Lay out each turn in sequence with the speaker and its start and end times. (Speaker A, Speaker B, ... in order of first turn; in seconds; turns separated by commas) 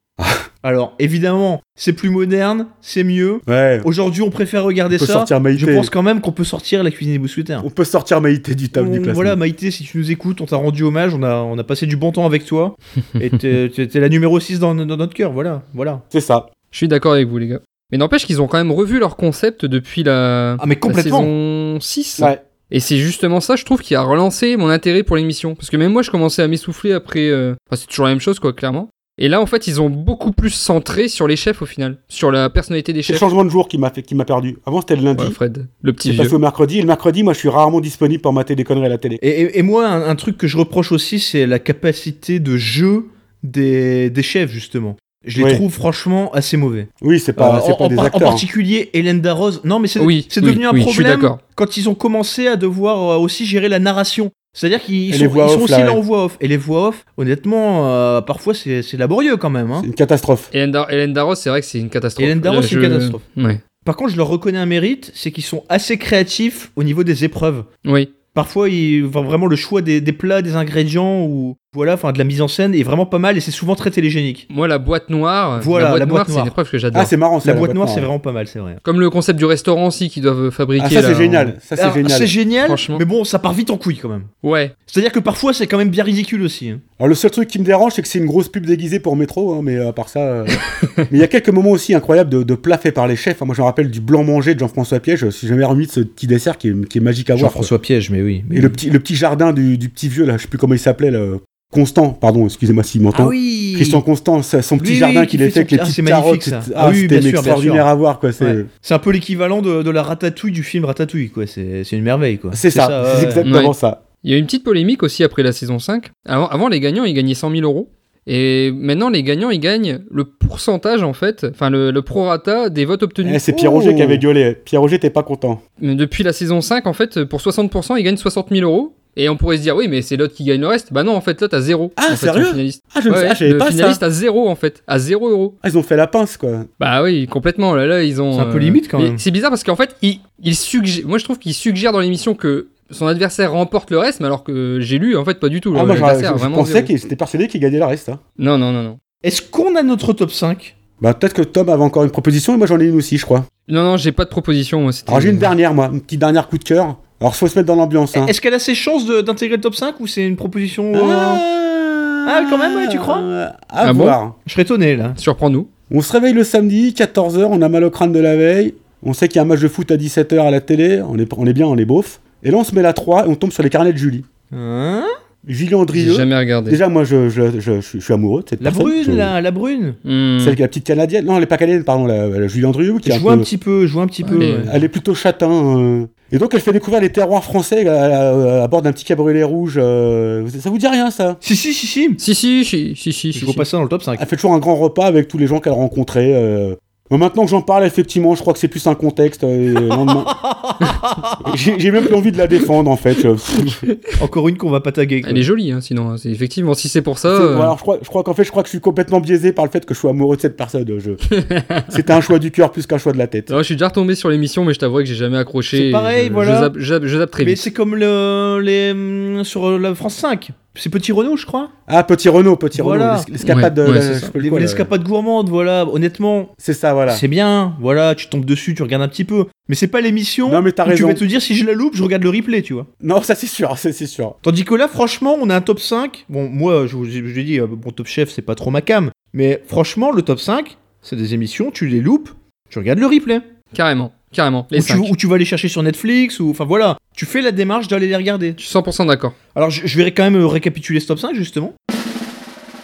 Speaker A: 0.2-0.4, Speaker B: 0.6-7.7, Speaker A: 3.5-3.9, Speaker A: 4.9-5.9, Speaker A: 7.6-9.4, Speaker B: 8.7-16.0, Speaker A: 16.1-16.5, Speaker C: 16.7-33.3, Speaker B: 20.6-21.3, Speaker A: 33.0-35.4, Speaker C: 35.2-36.4, Speaker A: 36.0-39.2, Speaker B: 39.2-59.9, Speaker A: 47.0-48.4, Speaker C: 50.0-51.4, Speaker A: 55.1-56.0, Speaker A: 59.8-60.5, Speaker C: 60.5-63.6, Speaker B: 62.2-63.2, Speaker B: 63.8-67.7, Speaker C: 67.8-68.1, Speaker B: 68.3-74.5, Speaker C: 74.5-77.1, Speaker B: 75.6-76.5, Speaker A: 76.9-78.1, Speaker B: 77.4-78.8, Speaker C: 78.8-81.5, Speaker A: 80.8-82.3, Speaker B: 81.8-84.3, Speaker C: 82.7-83.0, Speaker C: 84.4-84.7, Speaker B: 84.9-86.8, Speaker A: 87.0-97.7, Speaker C: 90.6-91.0, Speaker B: 97.4-98.8, Speaker A: 98.5-108.7, Speaker B: 103.1-104.0, Speaker B: 104.8-107.9, Speaker B: 108.4-113.5, Speaker A: 112.5-114.0, Speaker C: 113.4-124.2, Speaker A: 123.2-125.6, Speaker C: 125.8-135.6, Speaker A: 132.0-134.0, Speaker A: 135.6-136.7, Speaker C: 136.8-146.9, Speaker B: 138.3-139.2, Speaker A: 145.7-148.2, Speaker C: 148.4-149.0, Speaker B: 149.2-150.7, Speaker A: 151.0-153.5, Speaker C: 153.7-155.5, Speaker A: 155.1-158.3, Speaker B: 158.1-161.4, Speaker A: 160.9-164.3, Speaker B: 162.3-163.3, Speaker C: 163.8-164.2, Speaker B: 164.4-165.2, Speaker C: 165.2-165.7, Speaker A: 165.9-174.3, Speaker B: 174.5-175.1, Speaker A: 175.4-179.3, Speaker C: 175.9-176.8, Speaker B: 178.6-180.0, Speaker C: 180.1-180.6, Speaker A: 180.4-183.5, Speaker B: 183.1-184.7, Speaker C: 184.3-184.7, Speaker A: 184.7-191.4, Speaker B: 191.4-192.2, Speaker C: 192.2-193.7, Speaker B: 193.3-194.2, Speaker A: 194.2-200.3, Speaker B: 199.9-201.5, Speaker A: 201.4-203.8, Speaker B: 204.2-205.4, Speaker C: 205.2-207.7, Speaker A: 207.3-211.2, Speaker C: 211.3-212.1, Speaker A: 211.9-213.5, Speaker C: 213.5-217.7, Speaker B: 215.7-216.7, Speaker B: 217.4-221.7, Speaker A: 221.9-224.9, Speaker B: 222.8-223.3, Speaker C: 223.4-224.3, Speaker B: 224.4-226.5, Speaker A: 226.6-227.2, Speaker B: 227.1-232.9, Speaker A: 230.5-231.2, Speaker A: 233.0-234.4, Speaker B: 234.4-243.4, Speaker C: 243.7-245.1, Speaker B: 244.7-248.6, Speaker C: 248.6-249.3, Speaker B: 249.5-251.7